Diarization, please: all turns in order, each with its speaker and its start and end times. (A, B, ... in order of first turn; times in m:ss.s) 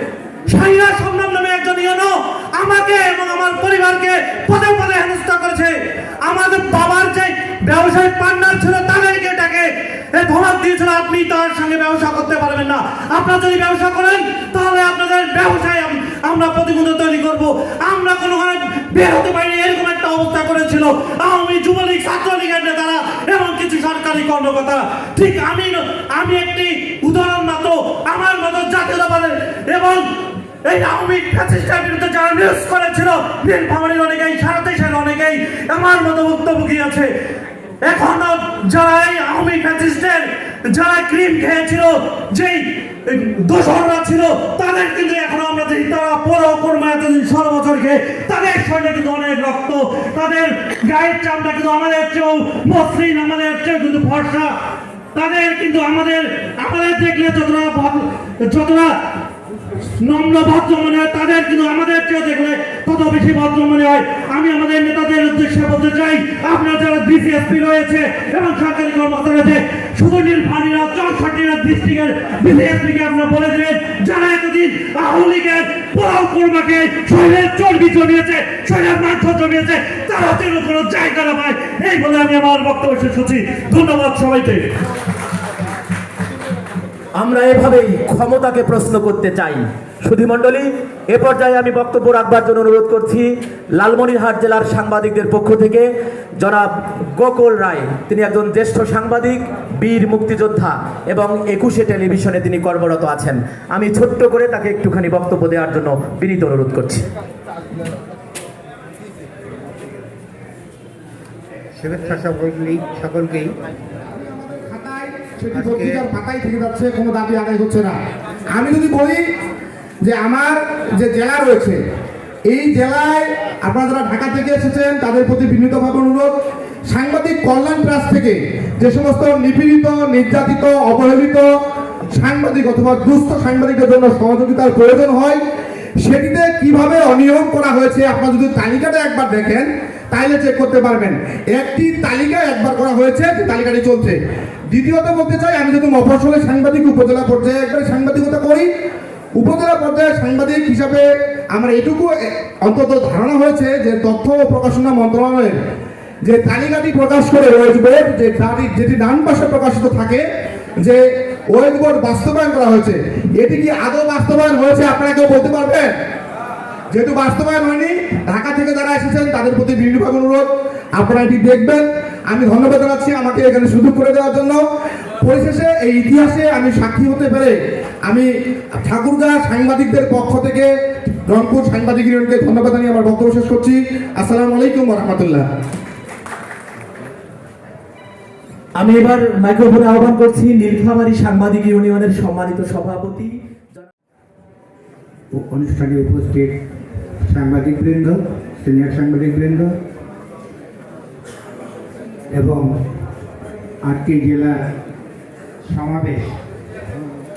0:00.5-0:30.1 A
0:30.6-0:37.1 A
0:37.8-0:54.6 A
0:55.1-0:59.0 A
1:00.0-1:24.7 A
1:27.2-1:35.9 B
1:36.4-1:47.0 B
1:51.8-1:53.5 C
1:54.4-1:57.9 D
1:55.5-1:56.0 C
1:58.5-1:59.2 D
2:00.0-2:01.8 D
2:02.5-2:06.3 D
2:06.9-2:11.5 D
2:12.1-2:15.4 D
2:16.0-2:24.2 D
2:24.7-2:28.7 D
2:29.4-2:35.6 D
2:36.2-2:40.2 D
2:40.8-2:45.9 D
2:46.9-2:54.6 D
2:55.2-2:57.5 D
2:58.0-3:00.7 D
3:01.3-3:05.4 D
3:08.8-3:13.9 B
3:15.3-3:16.5 C
3:17.2-3:19.7 C
3:22.3-3:22.7 C
3:23.8-3:24.6 C
3:25.7-3:26.3 C